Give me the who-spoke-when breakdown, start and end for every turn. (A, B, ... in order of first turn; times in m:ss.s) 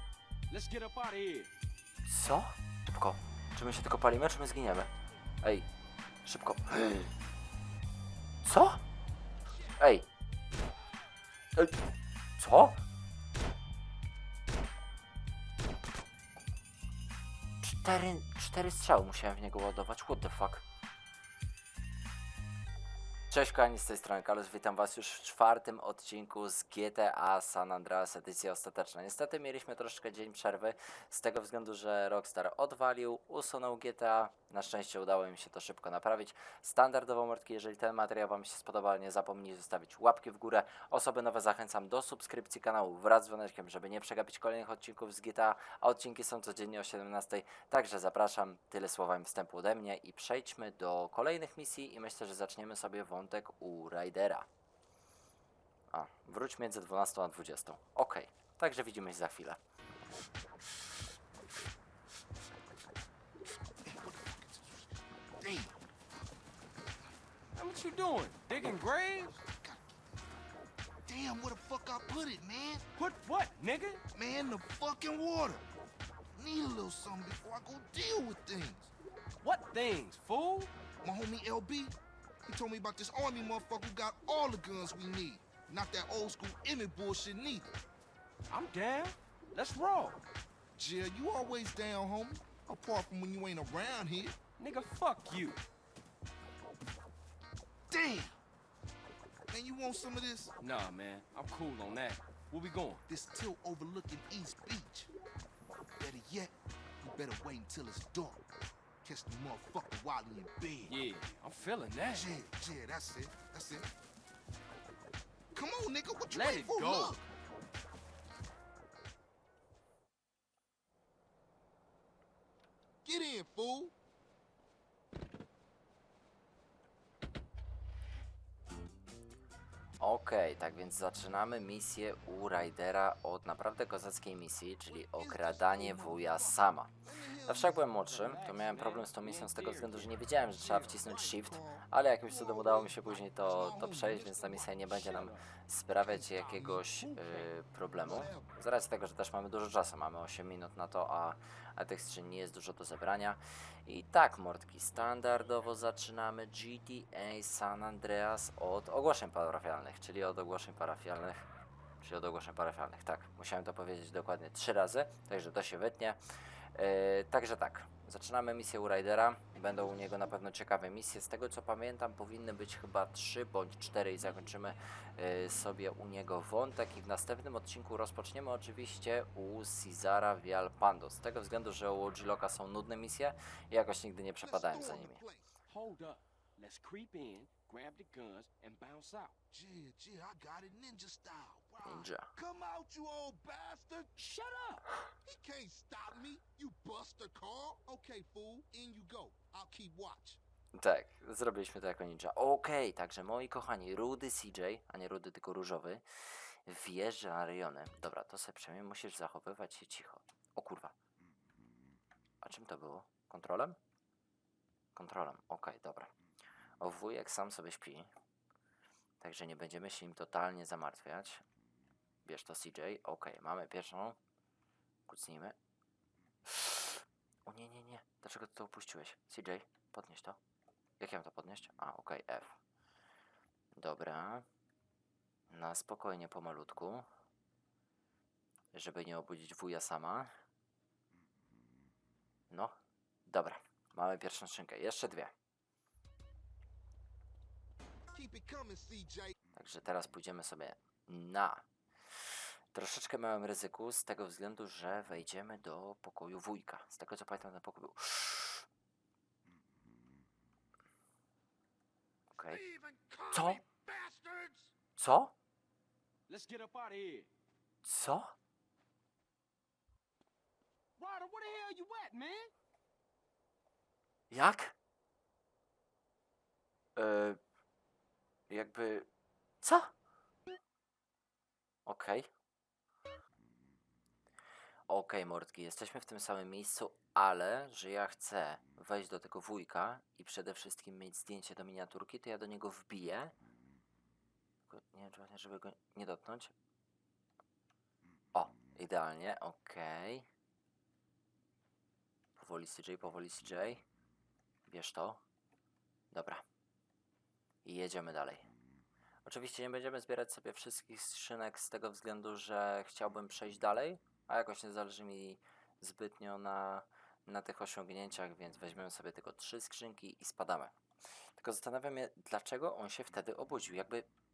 0:00.5-0:01.5 A
0:02.1-0:04.9 B
0:06.2-0:07.1 B
0:08.4-0:08.8 B
0:09.8-0:10.1 B
0:12.4-0:12.8 B
0:17.6-0:20.6 B
0:23.3-0:54.5 B
0:55.9-0:59.6 B
1:03.8-1:05.8 C
1:07.6-1:09.3 A
1:08.6-1:10.2 C
1:11.1-1:12.8 C
1:13.0-1:14.0 A
1:14.1-1:15.7 C
1:16.4-1:18.9 C
1:19.4-1:20.7 A
1:21.0-1:27.7 C
1:28.5-1:30.2 A
1:30.8-1:34.4 C
1:34.6-1:35.6 A
1:37.9-1:38.4 C
1:39.5-1:40.6 C
1:40.6-1:43.0 A
1:43.1-1:45.1 C
1:46.0-1:48.5 C
1:49.0-1:51.0 C
1:50.9-1:52.3 A
1:52.1-1:53.9 C
1:55.5-1:57.3 C
1:56.3-1:57.2 A
2:03.0-2:03.9 C
2:10.0-2:16.9 B
2:14.9-2:17.9 C
2:17.5-2:41.4 B
2:18.0-2:20.1 A
2:20.5-2:25.3 C
2:25.0-2:25.5 A
2:25.9-2:28.5 C
2:42.0-2:46.2 B
2:46.7-3:05.2 B
3:04.4-3:05.5 C
3:05.7-3:09.4 A
3:09.5-3:14.1 C
3:11.8-3:12.3 B
3:14.2-3:14.9 A
3:15.2-3:20.4 C
3:20.8-3:30.9 B
3:32.4-3:33.8 B
3:35.0-3:36.1 B
3:36.8-3:38.1 B
3:39.2-3:41.4 B
3:42.2-3:44.2 B
3:45.1-3:45.6 B
3:46.5-3:50.4 B
3:51.0-3:52.6 B
3:53.8-3:54.4 B
3:55.5-3:57.1 B
3:58.7-4:00.3 B
4:02.5-4:02.8 B
4:03.3-4:05.3 B
4:08.1-4:09.4 C
4:09.5-4:11.6 B
4:12.2-4:18.7 B
4:22.3-4:22.6 B
4:22.8-4:23.2 C
4:23.3-4:23.6 B
4:25.0-4:25.3 B
4:26.3-4:27.3 A
4:27.8-4:28.3 B
4:31.0-4:32.5 A
4:34.3-4:34.7 B
4:37.0-4:37.4 B
4:38.5-4:39.1 B
4:39.6-4:39.9 B
4:41.9-4:42.3 B
4:44.9-4:53.4 B
4:54.7-4:56.5 B
4:58.3-5:00.3 B
5:02.4-5:03.8 B
5:04.7-5:05.2 B
5:06.1-5:06.4 B
5:07.6-5:08.5 B
5:09.2-5:20.7 B
5:21.4-5:24.1 B